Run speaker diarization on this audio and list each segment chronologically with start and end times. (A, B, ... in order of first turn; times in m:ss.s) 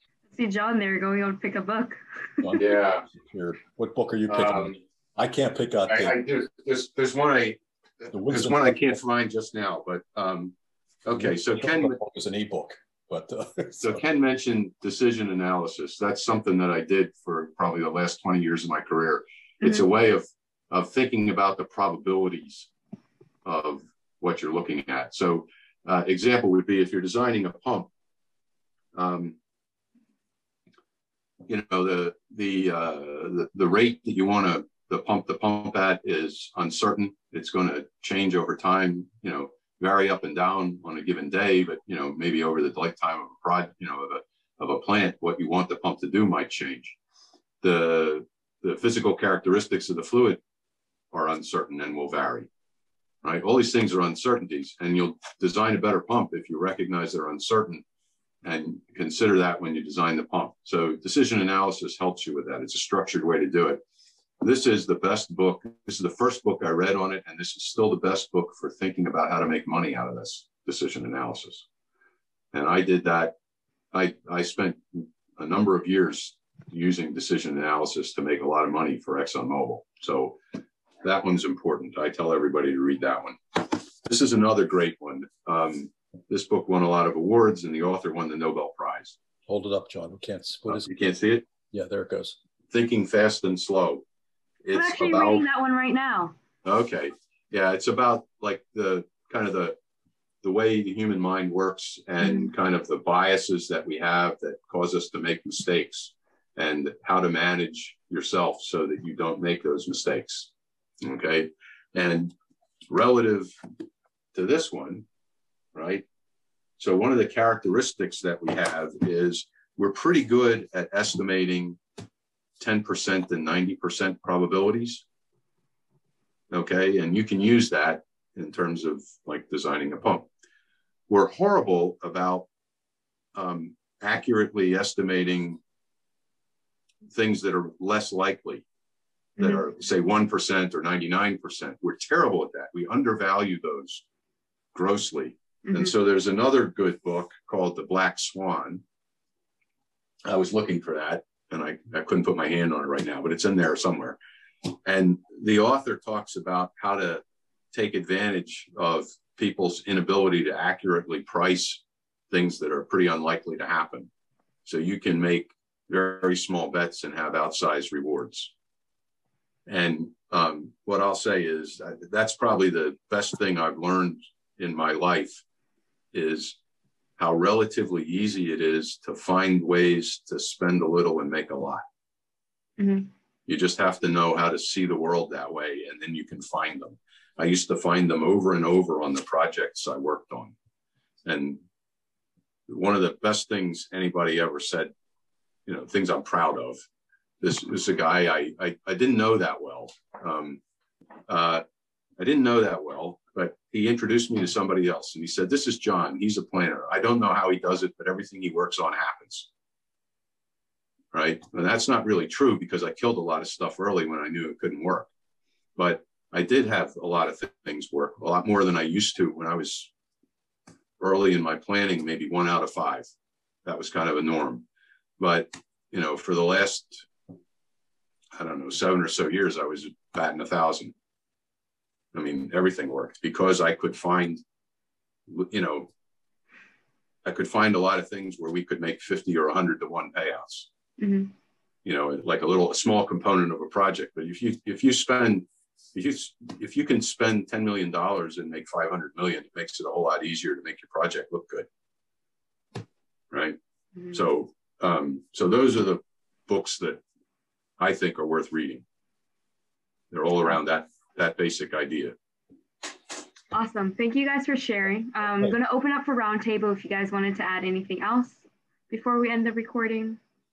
0:00.3-0:02.0 A
0:02.4-0:06.2 B
0:02.6-0:03.0 C
0:04.3-0:04.8 C
0:05.9-0:10.5 C
0:08.1-0:08.8 B
0:11.0-0:12.0 C
0:11.1-0:14.0 B
0:13.8-0:22.7 C
0:19.6-0:19.9 A
0:23.4-0:27.9 C
0:29.0-0:29.4 C
0:31.5-0:47.0 C
0:47.6-0:50.4 C
0:51.1-0:52.5 C
0:53.2-0:57.8 C
0:58.4-1:03.8 C
1:04.4-1:11.7 C
1:12.5-1:13.4 C
1:13.9-1:20.4 C
1:21.0-1:29.2 C
1:29.5-1:30.9 B
1:30.7-1:31.4 C
1:31.7-1:32.4 B
1:32.7-1:34.0 C
1:34.6-1:35.4 C
1:34.7-1:36.4 A
1:36.6-1:39.8 C
1:40.4-1:50.5 C
1:42.2-1:42.5 A
1:51.0-1:52.3 C
1:52.9-1:53.5 C
1:54.3-1:55.0 C
1:55.8-1:56.1 C
1:56.8-2:01.8 C
2:02.6-2:05.0 C
2:06.5-2:10.3 C
2:11.1-2:12.5 C
2:13.4-2:15.6 C
2:17.1-2:18.6 C
2:19.4-2:24.0 C
2:24.7-2:28.8 C
2:25.7-2:25.9 A
2:30.3-2:44.1 C
2:44.7-2:48.5 C
2:49.7-2:55.4 C
2:56.1-2:56.6 C
2:57.2-3:01.8 C
3:02.8-3:03.1 A
3:03.5-3:10.5 C
3:11.2-3:11.6 C
3:12.7-3:14.9 C
3:15.7-3:16.8 C
3:17.4-3:20.6 C
3:21.3-3:21.6 C
3:22.2-3:29.5 C
3:31.1-3:35.1 C
3:35.8-3:39.9 C
3:41.0-3:43.1 C
3:43.6-3:44.6 C
3:45.2-3:47.1 C
3:48.3-3:50.9 C
3:52.1-3:54.4 C
3:55.3-3:55.9 C
3:57.2-4:00.7 C
4:01.0-4:01.3 A
4:01.8-4:11.7 C
4:13.3-4:13.6 C
4:14.0-4:14.2 A
4:14.1-4:17.0 C
4:17.8-4:18.8 C
4:20.1-4:22.2 C
4:23.5-4:30.2 A